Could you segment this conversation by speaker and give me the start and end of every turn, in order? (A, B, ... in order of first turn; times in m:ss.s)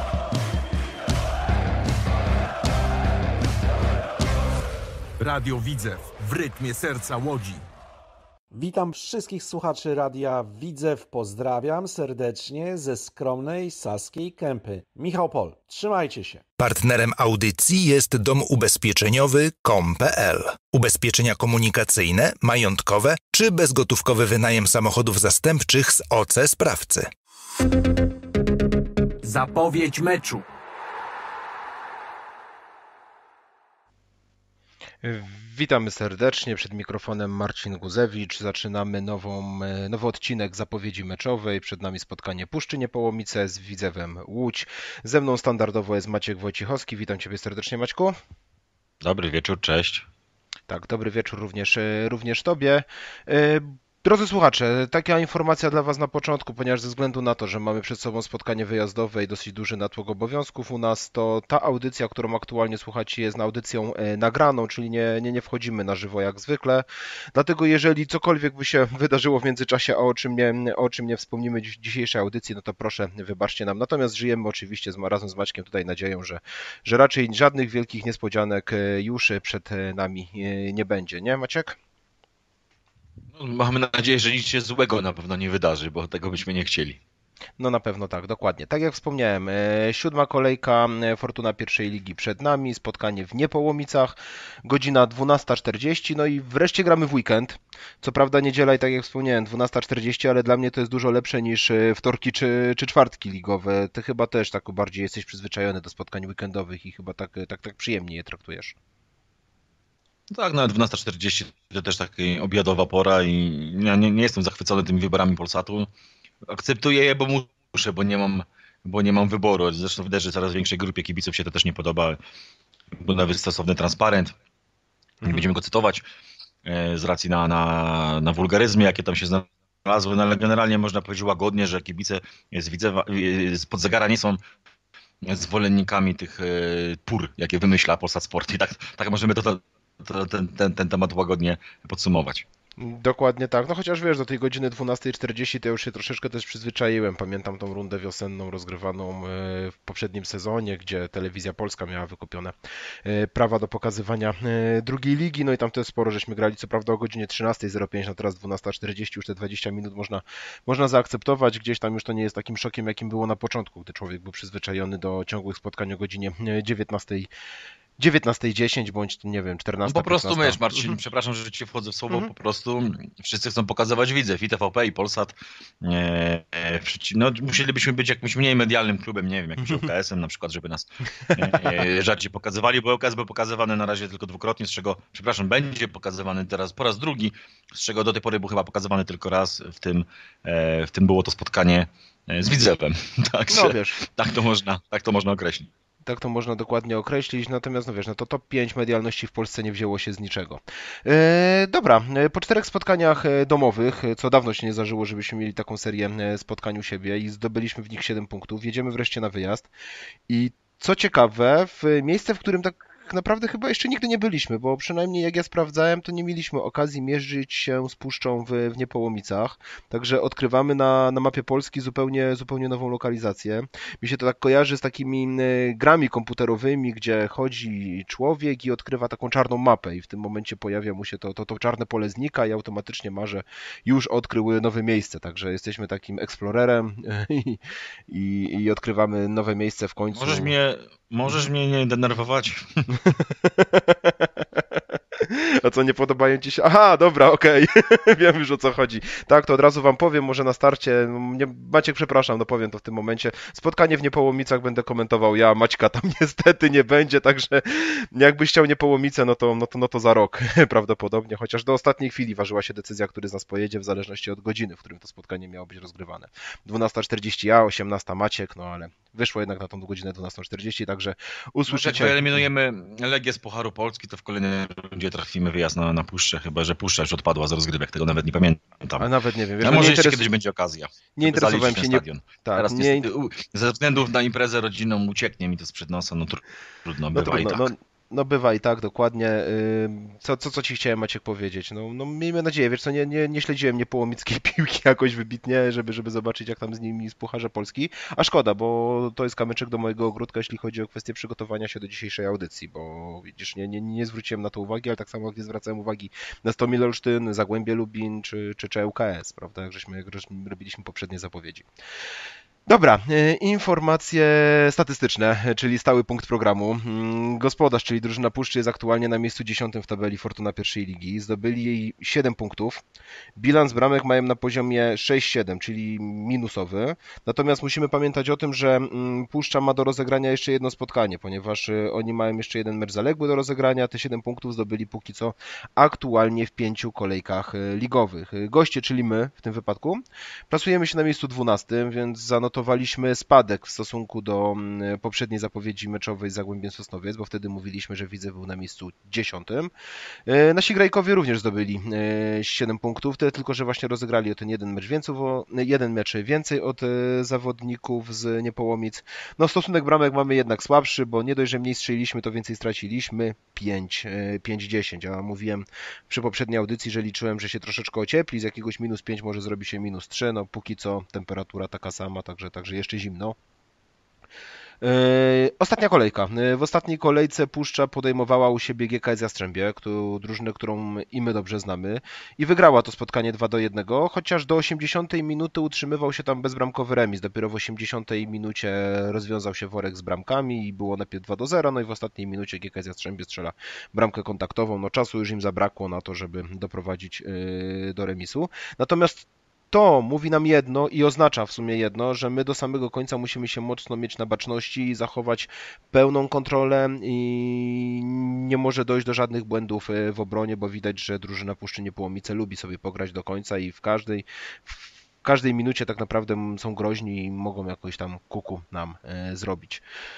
0:05.2-0:07.6 A
0:08.5-0:16.4 B
0:16.6-0:27.1 C
0:29.2-0:30.4 A
0:35.0-0:48.2 D
0:49.0-0:50.1 E
0:50.7-1:21.8 D
1:23.3-1:27.0 E
1:27.6-1:48.8 D
1:50.3-1:55.9 E
1:56.5-2:02.2 E
2:03.0-2:04.4 E
2:05.2-2:06.0 E
2:06.6-2:14.4 E
2:15.2-2:22.4 E
2:22.8-2:47.3 D
2:48.0-2:51.0 D
2:49.9-3:15.7 E
3:13.5-3:14.0 D
3:16.0-3:29.7 D
3:30.3-4:00.5 D
4:00.1-4:03.0 E
4:03.0-4:32.4 D
4:31.7-4:39.1 E
4:39.0-4:40.2 D
4:39.6-4:47.7 E
4:41.2-4:43.1 D
4:47.1-5:11.7 D
5:12.7-5:22.8 D
5:23.4-5:49.7 D
5:50.3-6:13.4 D
6:14.8-6:59.8 D